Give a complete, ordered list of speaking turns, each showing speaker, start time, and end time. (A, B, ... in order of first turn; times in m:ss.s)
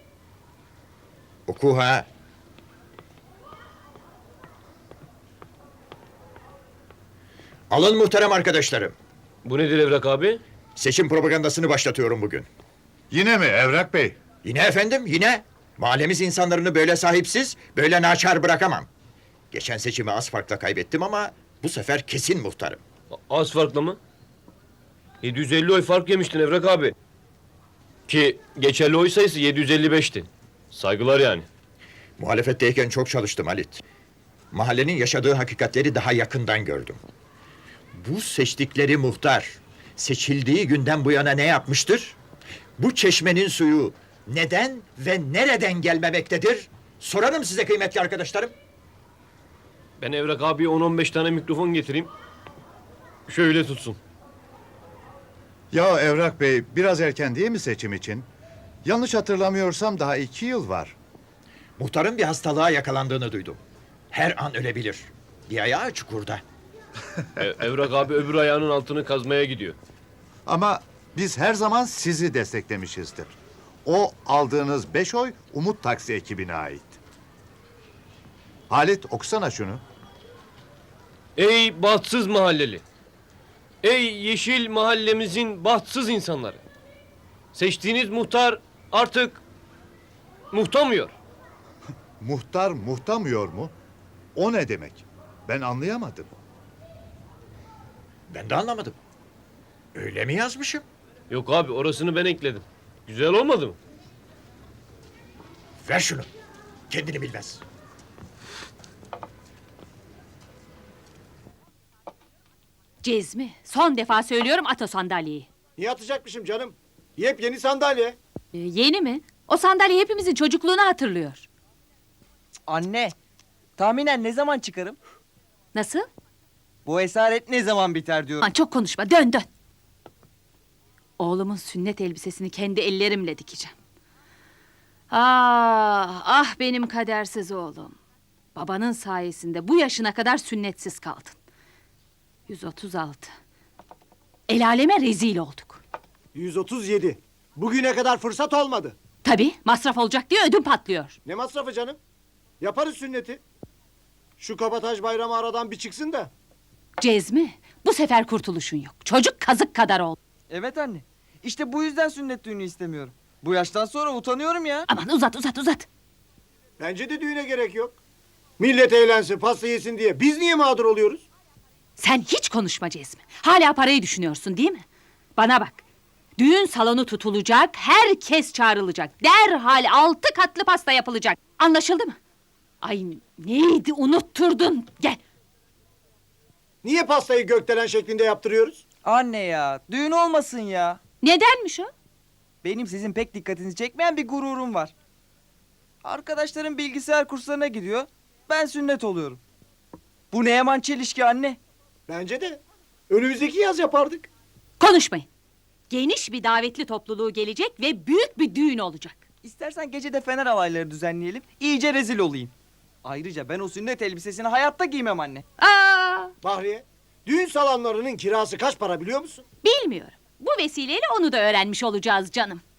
0:01.5-0:02.1 A
0:07.7-0:09.0 A
0:09.4-0:10.4 B
0:10.8-0:12.5 A
0:13.1-0:14.2 C
0:14.4-0:18.9 A
0:19.5-0:22.8 A
0:23.3-0:24.0 B
0:25.2-0:26.9 B
0:28.1-0:31.5 B
0:32.2-0:33.8 A
0:34.5-0:37.0 A
0:37.9-0:42.2 A
0:42.8-0:48.6 A
0:50.0-0:52.1 B
0:53.3-0:54.0 B
0:55.7-0:58.3 C
0:58.8-1:01.0 C
1:01.8-1:03.6 A
1:04.1-1:06.4 A
1:07.4-1:09.8 B
1:10.5-1:17.0 C
1:18.7-1:19.8 C
1:21.4-1:22.8 B
1:23.8-1:26.6 B
1:27.5-1:29.4 B
1:30.5-1:31.2 B
1:32.2-1:33.7 C
1:34.4-1:36.3 C
1:38.3-1:39.0 A
1:40.0-1:40.8 A
1:41.3-1:43.8 B
1:45.8-1:46.3 A
1:46.9-1:47.6 A
1:53.0-1:55.5 D
1:55.8-1:58.2 E
1:58.5-2:01.5 D
2:02.7-2:03.2 F
2:03.8-2:05.0 F
2:05.7-2:06.1 D
2:06.8-2:08.5 F
2:08.4-2:09.5 D
2:11.2-2:13.7 D
2:15.1-2:18.0 D
2:18.6-2:21.4 D
2:22.5-2:23.3 D
2:24.5-2:25.8 D
2:26.3-2:29.0 E
2:29.2-2:31.2 D
2:31.2-2:32.0 E
2:32.6-2:33.4 E
2:34.4-2:36.3 E
2:37.0-2:40.2 D
2:40.5-2:44.9 F
2:44.9-2:45.9 D
2:46.8-2:48.0 E
2:48.6-2:51.3 E
2:52.0-2:54.9 D
2:55.4-2:55.8 D
2:56.4-3:02.2 D
3:02.8-3:05.2 D
3:06.8-3:08.8 E
3:09.0-3:11.0 F
3:11.2-3:11.9 D
3:12.6-3:14.9 F
3:16.0-3:19.4 F
3:20.3-3:21.6 F
3:22.1-3:24.3 E
3:24.8-3:25.3 D
3:25.9-3:29.2 D
3:29.4-3:32.5 F
3:33.0-3:35.4 F
3:35.6-3:36.3 D
3:36.4-3:39.4 E
3:39.6-3:42.6 D